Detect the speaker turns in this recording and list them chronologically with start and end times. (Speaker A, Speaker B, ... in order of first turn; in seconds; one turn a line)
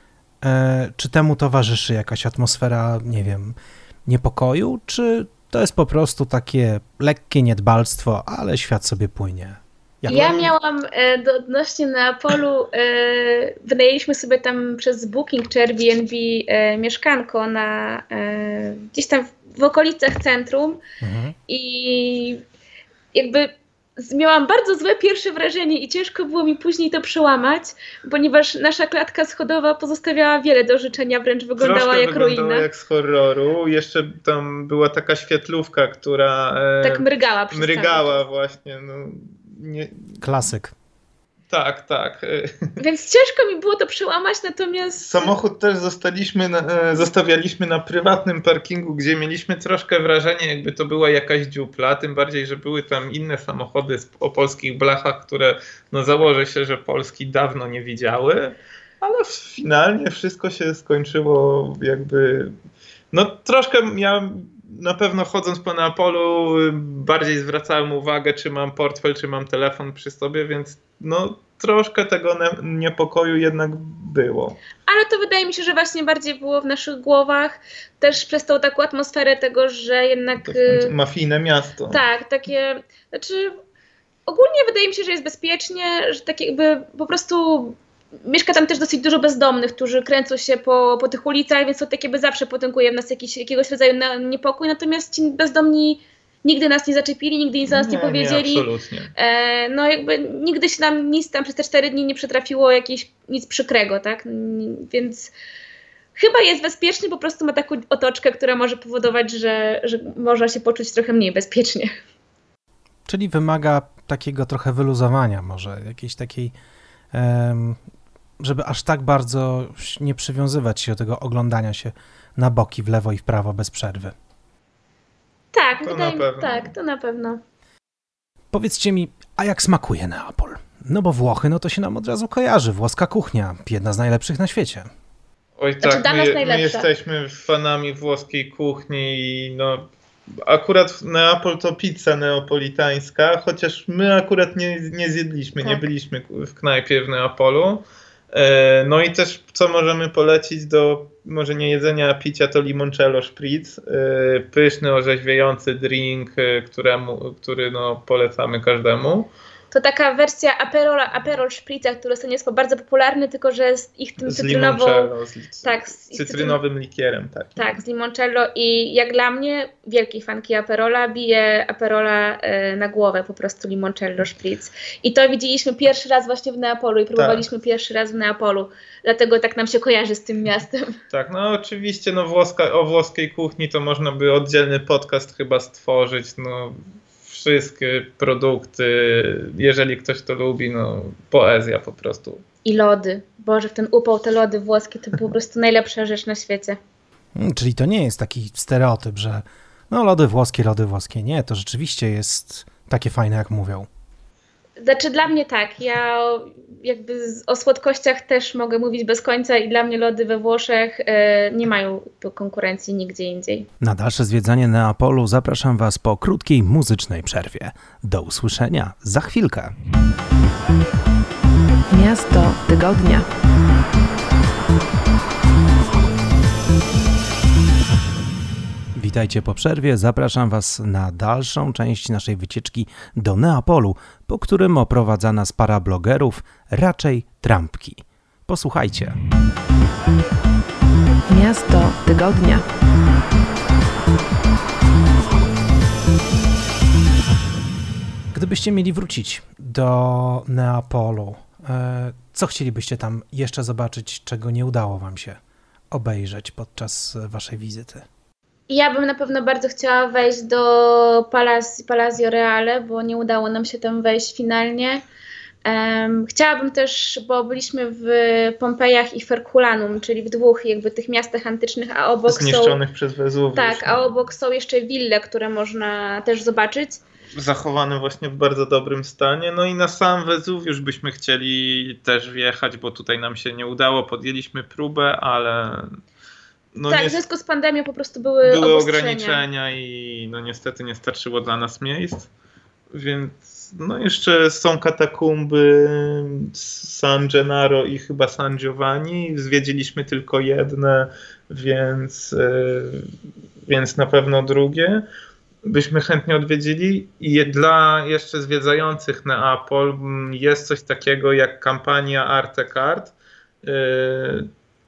Speaker A: 0.4-10.3
Speaker B: 10.1-20.8
Speaker C: 10.1-10.5
Speaker A: 21.0-21.4
Speaker B: 21.5-22.4
Speaker B: 23.1-32.7
Speaker C: 31.6-40.1
Speaker B: 36.8-38.2
Speaker A: 40.2-40.7
Speaker C: 41.5-42.5
Speaker B: 42.8-45.3
Speaker C: 45.0-62.5
Speaker C: 63.1-74.6
Speaker B: 74.8-80.9
Speaker C: 80.4-82.0
Speaker B: 81.9-83.5
Speaker B: 84.3-105.3
Speaker C: 97.7-99.1
Speaker B: 106.2-111.9
Speaker A: 113.1-116.5
Speaker A: 117.1-117.8
Speaker A: 118.4-124.1
Speaker B: 125.5-127.4
Speaker C: 125.8-126.7
Speaker A: 128.5-134.9
Speaker C: 135.6-139.9
Speaker B: 135.8-136.9
Speaker C: 140.4-159.3
Speaker B: 145.6-145.8
Speaker B: 159.7-165.1
Speaker C: 164.2-167.6
Speaker B: 165.6-166.6
Speaker B: 167.6-180.9
Speaker C: 177.1-177.4
Speaker C: 181.1-192.4
Speaker B: 192.6-196.8
Speaker A: 197.4-203.9
Speaker B: 204.8-213.7
Speaker A: 213.8-219.7
Speaker D: 221.9-223.3
Speaker A: 228.9-239.2
Speaker D: 241.3-242.6
Speaker A: 248.3-255.4
Speaker A: 255.9-258.1
Speaker B: 258.7-265.0
Speaker B: 265.6-272.8
Speaker C: 272.3-274.1
Speaker B: 273.6-277.0
Speaker C: 277.4-285.9
Speaker C: 286.8-287.2
Speaker B: 286.9-289.4
Speaker C: 288.5-292.3
Speaker C: 292.9-303.1
Speaker C: 303.6-305.0
Speaker C: 305.6-314.5